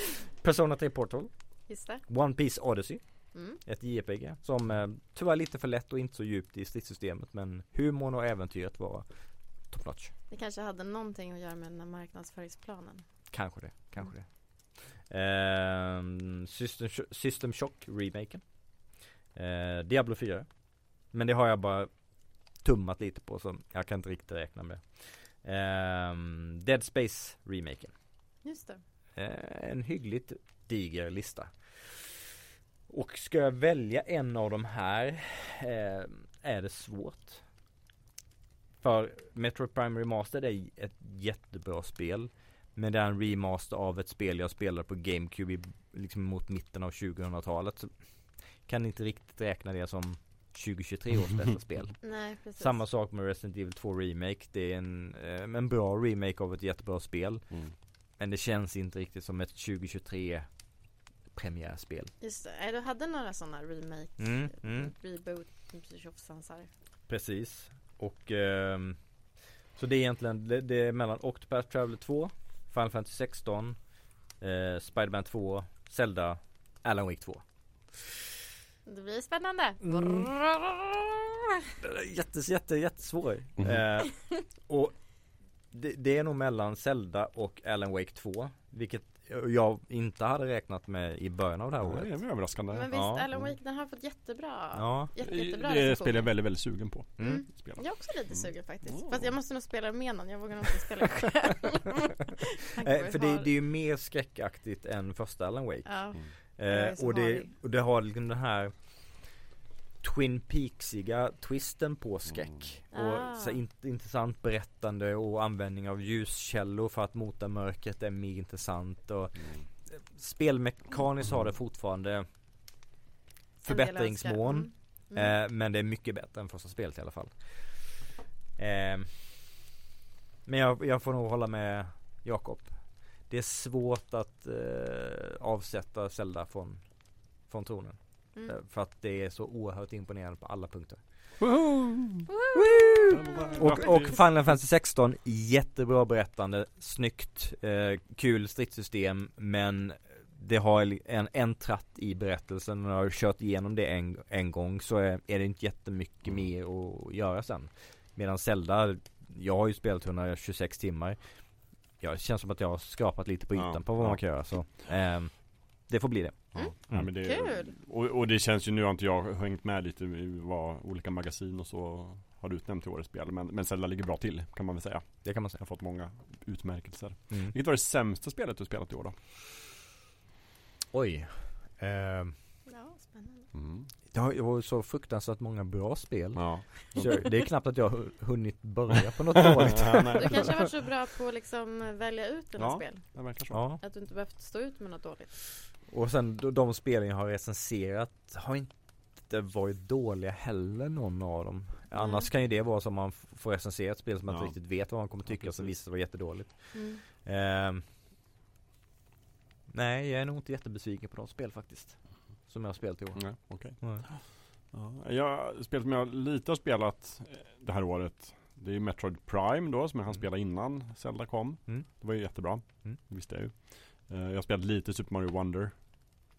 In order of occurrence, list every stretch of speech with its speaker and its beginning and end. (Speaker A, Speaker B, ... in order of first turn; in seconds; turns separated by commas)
Speaker A: 0.4-10.1, Speaker B: 1.7-2.0, Speaker B: 3.3-3.6, Speaker B: 10.3-13.3, Speaker A: 13.3-27.9, Speaker B: 28.4-28.8, Speaker A: 29.2-32.2, Speaker A: 32.9-37.5, Speaker A: 38.8-60.7, Speaker B: 52.0-52.8, Speaker A: 61.3-62.1, Speaker B: 62.2-66.7, Speaker A: 64.2-64.9, Speaker A: 67.1-69.2, Speaker A: 69.7-73.8, Speaker A: 74.4-78.2, Speaker B: 78.9-80.3, Speaker A: 79.8-80.9, Speaker A: 81.8-85.1, Speaker A: 85.7-92.3, Speaker C: 91.8-93.6, Speaker B: 92.7-96.4, Speaker A: 92.9-93.3, Speaker A: 94.7-95.1, Speaker C: 95.2-99.3, Speaker A: 97.2-97.5, Speaker B: 97.2-103.5, Speaker A: 102.8-109.4, Speaker B: 105.8-107.5, Speaker A: 110.0-122.3, Speaker B: 112.9-113.6, Speaker A: 123.6-129.6, Speaker B: 123.6-125.4, Speaker A: 130.4-141.3, Speaker C: 141.4-142.3, Speaker B: 142.3-144.2, Speaker A: 142.5-167.1, Speaker C: 143.1-144.2, Speaker C: 156.2-156.5, Speaker C: 163.5-164.8, Speaker C: 166.5-179.2, Speaker B: 166.6-167.7, Speaker A: 175.2-175.6, Speaker A: 180.9-182.4, Speaker B: 182.7-183.5, Speaker C: 183.5-183.9, Speaker A: 184.1-190.6, Speaker C: 186.3-187.3, Speaker B: 187.0-187.3, Speaker C: 189.6-190.7, Speaker B: 190.2-195.3, Speaker C: 192.6-193.6, Speaker A: 193.5-193.8, Speaker A: 195.9-207.8, Speaker B: 201.9-202.3, Speaker C: 204.3-205.7, Speaker B: 206.7-207.0, Speaker A: 209.7-214.1, Speaker C: 213.2-225.8, Speaker A: 221.7-223.0